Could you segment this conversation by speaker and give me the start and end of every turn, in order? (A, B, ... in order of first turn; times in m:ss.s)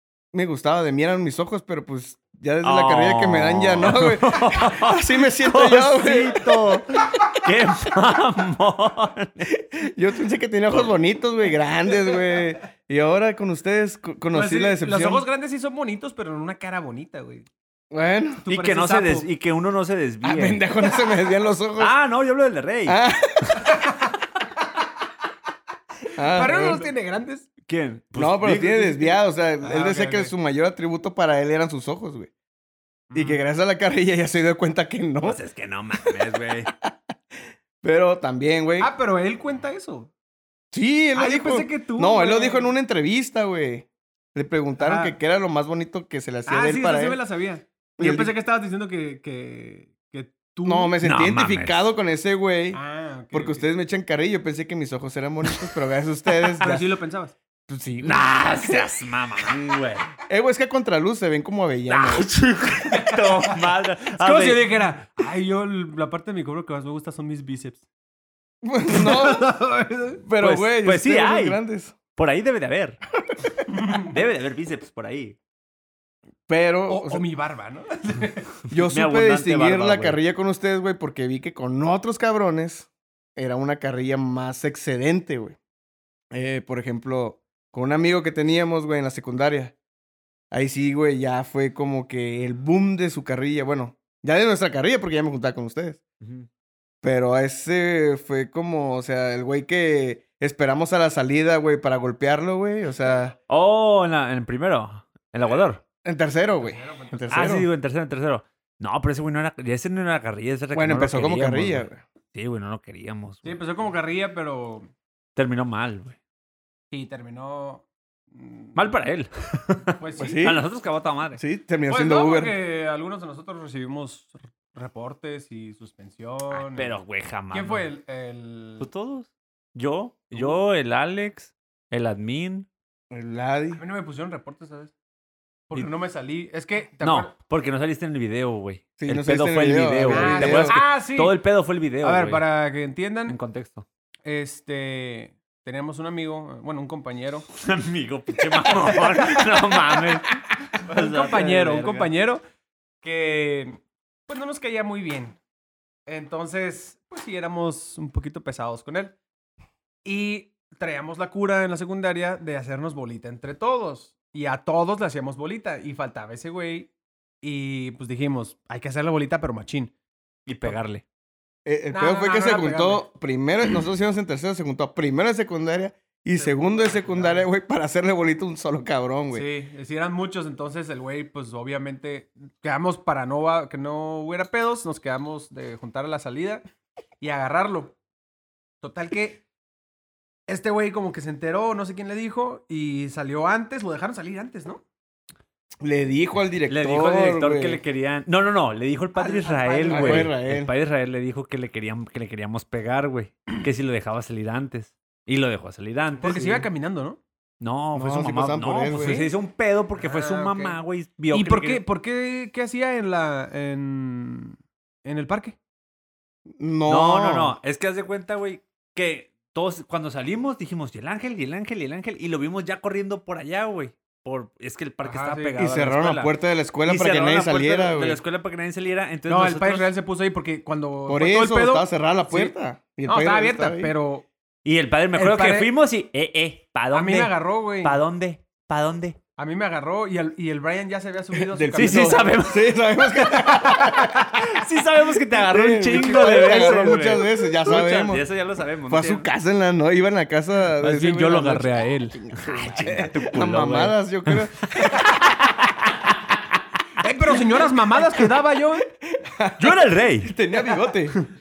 0:00.3-0:07.4 A
0:02.6-0:09.4 B
0:09.5-0:15.3 A
0:14.3-0:17.5 C
0:17.9-0:18.4 A
0:18.4-0:19.3 C
0:18.5-0:20.6 B
0:20.2-0:22.0 A
0:21.8-0:23.0 B
0:22.9-0:23.6 A
0:23.6-0:24.1 C
0:26.2-0:26.9 A
0:26.3-0:27.5 C
0:27.7-0:29.2 B
0:28.2-0:32.3 A
0:29.6-0:30.3 C
0:33.1-0:33.4 C
0:33.1-0:35.4 A
0:35.2-0:36.7 B
0:37.8-0:38.9 A
0:38.8-0:40.1 C
0:40.7-0:47.2 A
0:41.2-0:42.7 C
0:44.8-0:45.2 C
0:46.5-0:51.0 C
0:48.0-0:48.3 A
0:50.6-0:52.8 A
0:51.0-0:51.8 B
0:52.7-0:53.7 C
0:53.3-0:56.9 A
0:56.6-0:57.4 C
0:57.7-0:58.8 A
0:58.0-1:00.1 B
1:00.3-1:02.3 A
1:01.9-1:04.7 B
1:02.9-1:03.6 C
1:04.2-1:07.8 C
1:08.6-1:09.5 A
1:08.9-1:10.2 C
1:10.2-1:12.0 A
1:10.4-1:11.6 B
1:12.2-1:13.0 B
1:13.7-1:14.1 C
1:14.0-1:15.4 B
1:16.5-1:17.2 A
1:16.9-1:18.5 C
1:18.7-1:25.6 A
1:18.7-1:20.2 B
1:26.3-1:29.8 A
1:30.5-1:36.0 A
1:36.2-1:36.5 B
1:37.0-1:43.4 A
1:43.5-1:45.8 B
1:46.0-1:47.7 A
1:46.6-1:47.5 C
1:47.3-1:53.6 B
1:50.7-1:52.0 A
1:53.4-1:54.9 C
1:55.4-1:56.2 B
1:56.9-1:58.8 C
1:58.8-2:01.4 B
2:00.0-2:00.4 C
2:00.2-2:00.6 A
2:01.4-2:02.6 A
2:01.9-2:07.0 C
2:06.5-2:07.9 B
2:07.5-2:08.9 C
2:08.8-2:12.7 B
2:13.1-2:13.8 A
2:13.7-2:14.9 C
2:15.7-2:17.3 C
2:17.0-2:22.4 B
2:19.0-2:20.8 A
2:20.0-2:21.4 C
2:22.0-2:23.4 C
2:23.3-2:23.9 B
2:24.2-2:27.5 C
2:27.6-2:32.1 B
2:28.8-2:29.6 C
2:30.8-2:32.4 C
2:33.0-2:35.4 C
2:36.1-2:39.2 C
2:40.0-2:46.9 C
2:47.4-2:49.9 C
2:50.5-2:51.0 B
2:51.7-2:59.5 A
2:51.9-2:53.1 C
2:56.3-2:57.5 C
2:59.3-3:06.6 C
3:07.2-3:08.0 C
3:08.8-3:09.4 C
3:10.5-3:14.8 C
3:15.8-3:17.8 A
3:16.7-3:26.4 B
3:19.2-3:20.3 C
3:19.9-3:20.7 A
3:26.2-3:27.2 C
3:26.2-3:26.7 A
3:27.6-3:31.8 B
3:27.9-3:29.3 A
3:29.0-3:29.3 C
3:30.0-3:30.8 C
3:31.3-3:35.6 C
3:36.5-3:37.6 A
3:36.9-3:49.9 B
3:45.0-3:45.6 C
3:45.6-3:48.2 A
3:49.3-3:52.5 C
3:51.1-3:53.9 A
3:53.1-3:54.3 C
3:54.6-3:59.2 B
3:55.1-3:55.7 C
3:56.9-3:58.0 C
3:59.4-4:02.4 C
4:01.4-4:04.5 A
4:01.8-4:02.8 B
4:04.1-4:09.3 B
4:05.3-4:08.2 A
4:06.0-4:07.0 C
4:08.9-4:15.0 A
4:10.8-4:12.2 C
4:12.4-4:16.1 B
4:17.0-4:18.9 C
4:19.1-4:21.2 A
4:19.6-4:20.3 B